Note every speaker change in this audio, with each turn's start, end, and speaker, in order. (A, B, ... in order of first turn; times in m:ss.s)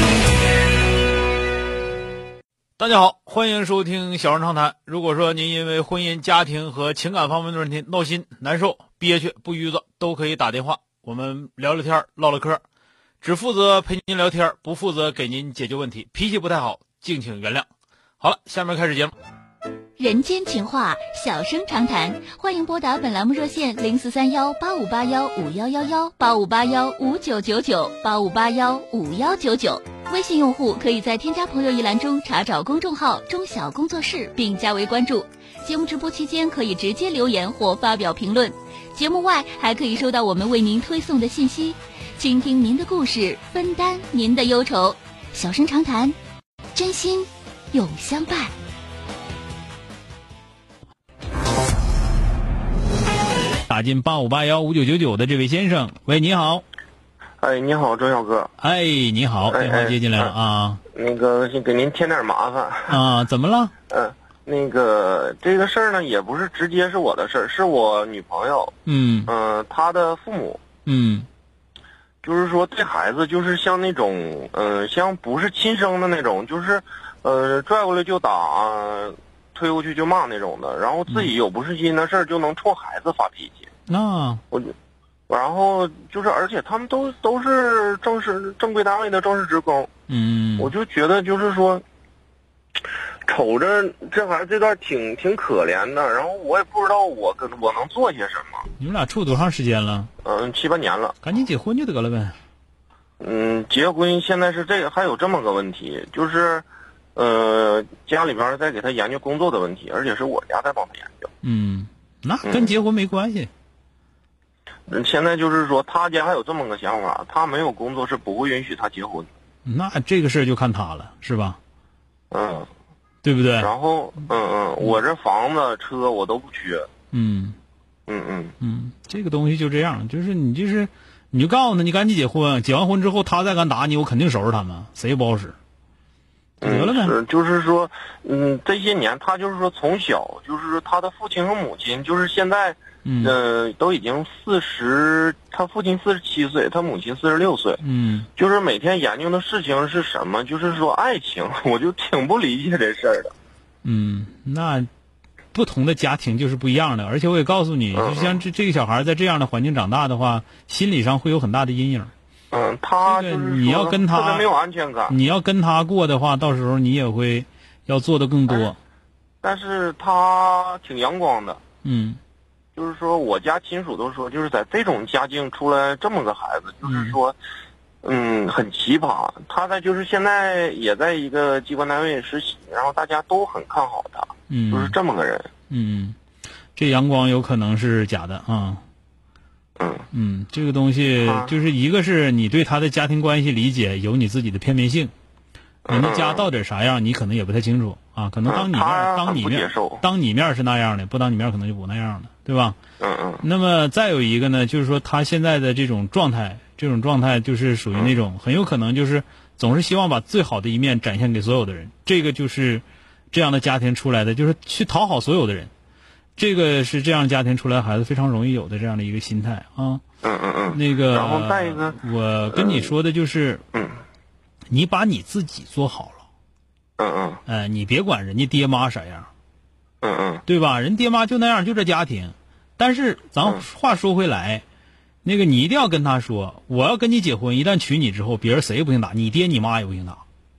0:02.8-0:12.6 A
0:13.2-0:17.7 A
0:18.2-0:19.1 A
0:20.0-0:46.2 B
0:46.8-0:48.5 B
0:53.7-0:56.6 A
0:57.4-0:58.5 C
0:58.6-1:00.8 A
0:59.5-1:00.3 C
1:00.9-1:03.0 C
1:02.9-1:03.7 A
1:03.9-1:08.8 C
1:08.9-1:09.3 A
1:09.3-1:10.6 C
1:10.9-1:11.3 A
1:12.2-1:23.7 C
1:23.9-1:24.4 A
1:25.3-1:29.9 C
1:30.1-1:30.7 A
1:30.6-1:31.8 C
1:33.3-1:38.7 C
1:38.8-1:40.1 A
1:40.2-1:41.2 C
1:41.2-1:42.4 A
1:43.2-1:51.3 C
1:51.4-1:53.5 A
1:52.5-1:52.7 C
1:54.9-1:59.3 C
1:59.6-2:01.6 A
2:02.3-2:02.7 C
2:03.2-2:03.7 A
2:03.6-2:06.9 C
2:07.1-2:07.6 A
2:08.1-2:08.5 C
2:08.6-2:15.6 A
2:16.6-2:27.8 C
2:16.6-2:17.2 A
2:23.0-2:23.4 A
2:27.8-2:28.3 A
2:28.4-2:33.3 C
2:33.8-2:34.9 A
2:35.5-2:42.1 A
2:38.0-2:38.4 C
2:42.5-2:45.2 C
2:43.0-2:44.5 A
2:45.1-2:48.8 A
2:49.4-2:51.6 C
2:51.8-2:52.2 A
2:52.8-2:57.4 C
2:56.8-2:57.2 A
2:58.0-3:05.5 C
3:04.5-3:05.0 A
3:05.7-3:06.2 A
3:06.8-3:08.8 A
3:09.8-3:10.1 C
3:10.1-3:15.1 A
3:11.2-3:11.5 C
3:15.9-3:16.5 C
3:15.9-3:22.8 A
3:18.5-3:20.0 C
3:23.0-3:23.4 C
3:23.4-3:35.7 A
3:36.4-3:40.0 A
3:40.2-3:42.0 C
3:40.7-3:43.6 A
3:42.5-3:42.9 C
3:43.7-3:44.0 C
3:44.7-3:46.2 A
3:47.0-3:47.4 C
3:47.5-3:49.3 A
3:50.0-3:50.4 C
3:50.5-3:54.6 A
3:55.2-4:00.2 A